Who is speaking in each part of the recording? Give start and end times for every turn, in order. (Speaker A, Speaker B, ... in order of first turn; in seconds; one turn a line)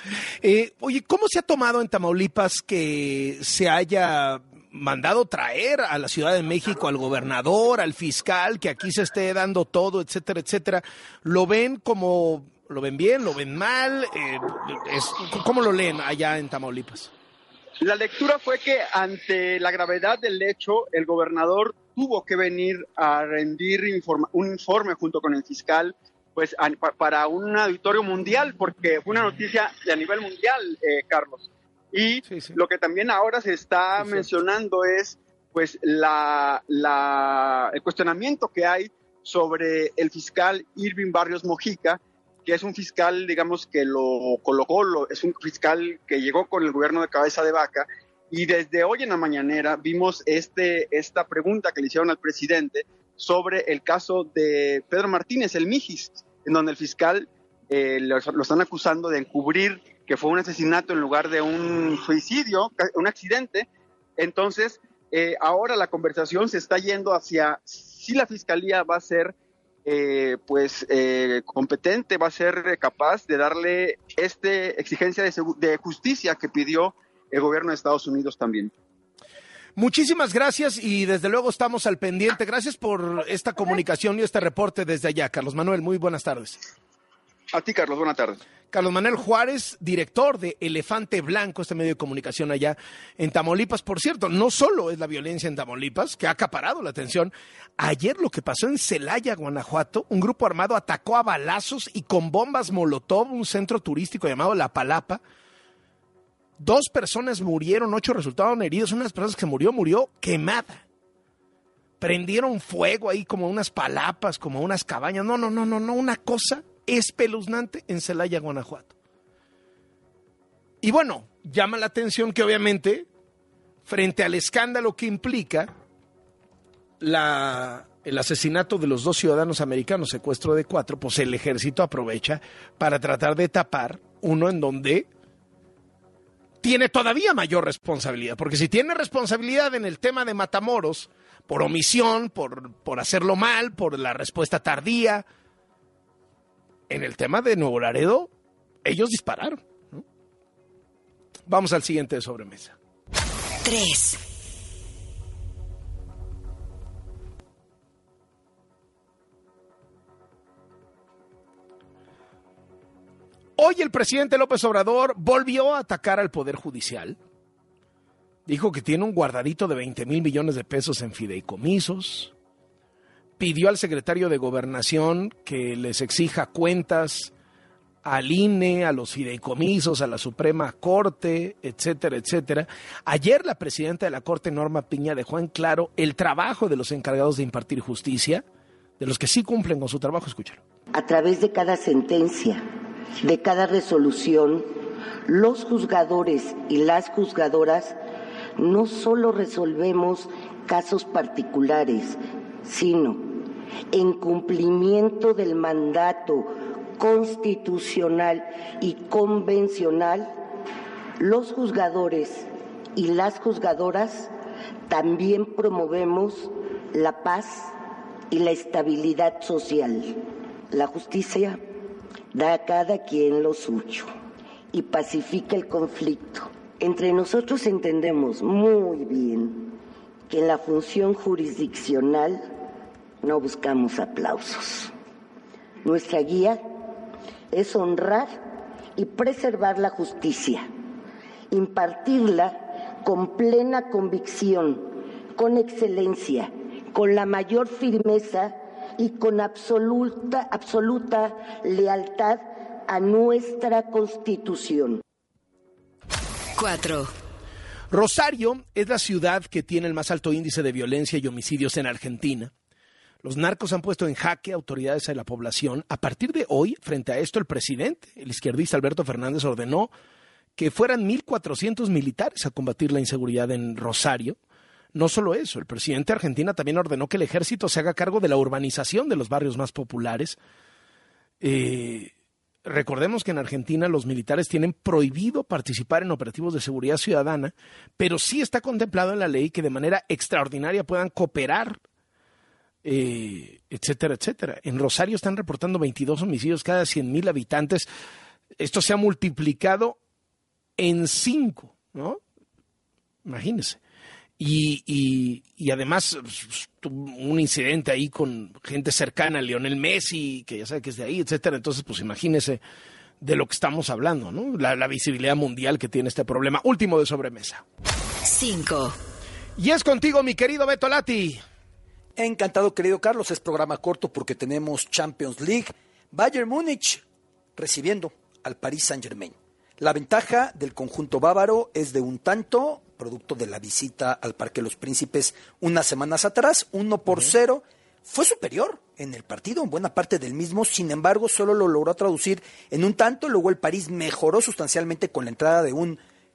Speaker A: 0.4-17.1
Speaker B: 17.8-78.7
Speaker A: 32.2-32.6
Speaker A: 34.0-34.3
Speaker A: 79.8-86.6
Speaker B: 87.5-88.4
Speaker A: 88.7-105.2
Speaker A: 106.6-110.8
Speaker A: 112.0-118.9
Speaker A: 120.8-123.0
Speaker A: 123.8-125.7
Speaker A: 127.0-135.1
Speaker A: 136.6-145.2
Speaker A: 146.9-148.3
Speaker A: 148.8-150.0
Speaker A: 151.5-152.7
Speaker C: 153.6-154.2
Speaker A: 163.6-167.2
Speaker A: 168.4-172.3
Speaker A: 173.4-177.3
Speaker A: 178.0-188.4
Speaker A: 189.0-190.6
Speaker D: 190.9-192.6
Speaker D: 193.2-194.7
Speaker D: 195.3-198.0
Speaker D: 198.6-210.3
Speaker D: 211.2-214.3
Speaker D: 214.9-217.7
Speaker D: 218.3-220.2
Speaker D: 220.7-221.6
Speaker D: 222.3-224.1
Speaker D: 224.7-229.7
Speaker D: 230.3-232.5
Speaker D: 233.2-234.9
Speaker D: 235.8-236.6
Speaker D: 237.5-238.4
Speaker D: 238.9-240.7
Speaker D: 241.5-255.0
Speaker C: 256.6-257.1
Speaker A: 257.9-262.5
Speaker A: 263.2-269.9
Speaker A: 270.6-274.4
Speaker A: 274.9-280.4
Speaker A: 281.4-282.1
Speaker A: 282.6-291.8
Speaker A: 292.8-297.9
Speaker A: 298.6-299.9
Speaker A: 300.8-302.2
Speaker A: 303.2-303.8
Speaker A: 304.4-312.6
Speaker A: 313.2-317.6
Speaker C: 318.2-318.9
Speaker A: 319.6-321.4
Speaker E: 322.2-327.0
Speaker E: 327.6-346.0